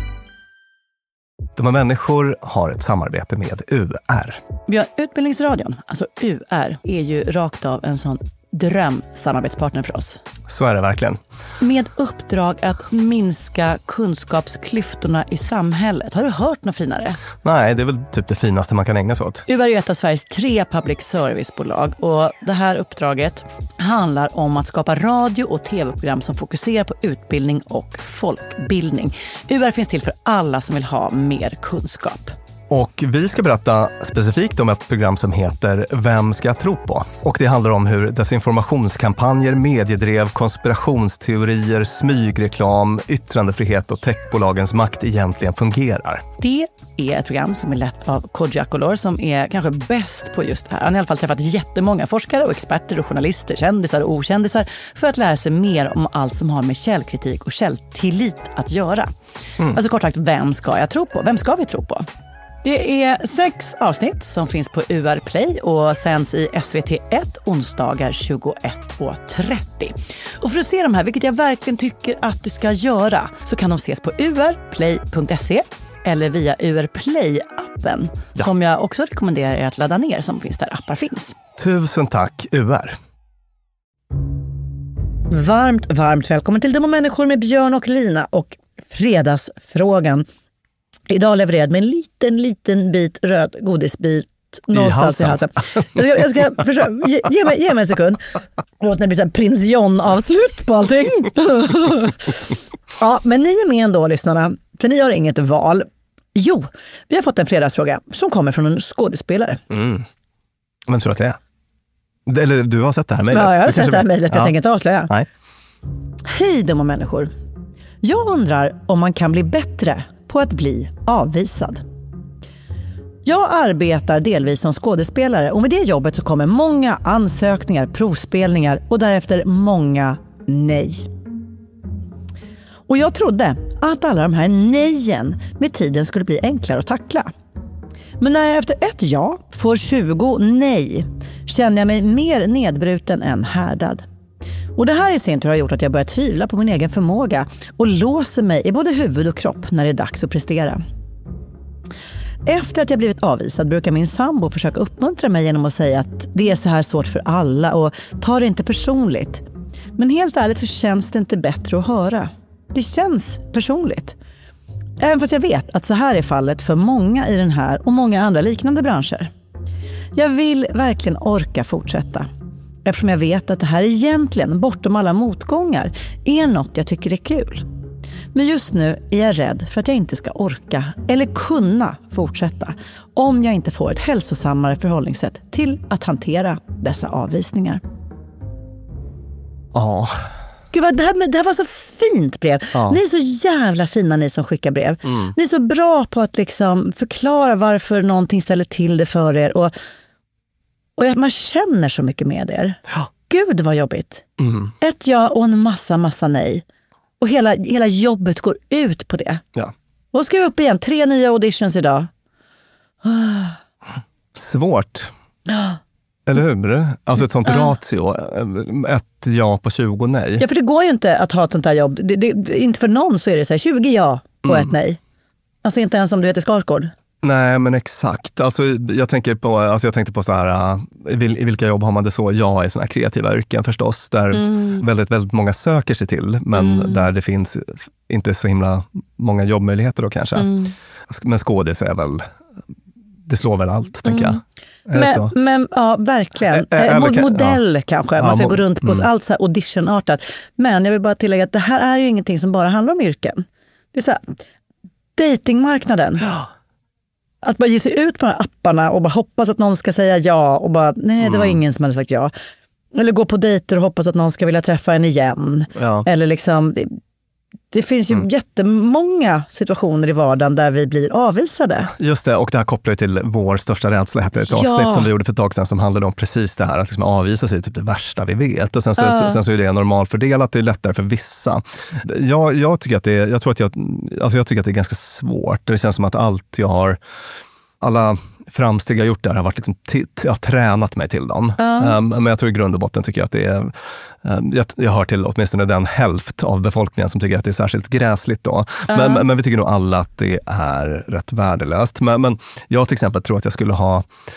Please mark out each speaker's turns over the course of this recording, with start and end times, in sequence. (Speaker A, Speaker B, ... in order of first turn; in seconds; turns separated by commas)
Speaker A: 1.6-4.4, Speaker B: 4.7-10.2, Speaker A: 10.5-11.2, Speaker B: 11.6-17.2, Speaker A: 17.4-19.4, Speaker B: 19.5-32.4, Speaker A: 32.7-46.2, Speaker B: 46.4-59.1, Speaker B: 59.7-62.0, Speaker B: 62.6-81.4, Speaker A: 81.6-83.0, Speaker B: 85.3-90.2, Speaker B: 91.1-98.2, Speaker A: 94.7-96.0, Speaker B: 98.8-109.6, Speaker A: 109.7-110.0, Speaker A: 110.9-111.4, Speaker A: 112.3-114.5, Speaker B: 113.3-115.1, Speaker B: 116.3-117.3, Speaker B: 118.0-121.8, Speaker B: 123.2-131.1, Speaker B: 132.9-137.3, Speaker B: 138.2-144.0, Speaker B: 144.8-150.8, Speaker B: 152.4-159.4, Speaker B: 160.0-164.2, Speaker B: 165.0-169.3, Speaker B: 170.2-172.3, Speaker B: 172.8-177.7, Speaker B: 178.3-187.8, Speaker A: 189.7-190.2, Speaker B: 190.7-199.7, Speaker B: 201.0-204.2, Speaker A: 204.4-204.7, Speaker B: 204.8-206.6, Speaker B: 207.2-209.4, Speaker B: 210.1-212.1, Speaker B: 213.0-213.6, Speaker A: 214.3-215.1, Speaker B: 215.5-215.8, Speaker A: 216.3-220.4, Speaker B: 220.4-225.0, Speaker B: 225.6-226.9, Speaker A: 227.2-240.6, Speaker B: 234.3-234.8, Speaker B: 236.6-237.1, Speaker B: 240.4-240.7, Speaker A: 241.1-242.2, Speaker A: 243.3-245.3, Speaker B: 244.1-244.4, Speaker B: 244.9-254.2, Speaker A: 246.5-247.6, Speaker A: 248.2-249.1, Speaker B: 255.2-256.3, Speaker B: 257.4-262.3, Speaker A: 261.2-261.6, Speaker B: 262.9-266.9, Speaker A: 265.8-266.1, Speaker B: 267.7-271.9, Speaker A: 271.9-287.0, Speaker B: 274.5-275.1, Speaker B: 279.0-279.4, Speaker A: 287.8-304.1, Speaker B: 291.6-292.0, Speaker B: 298.9-299.2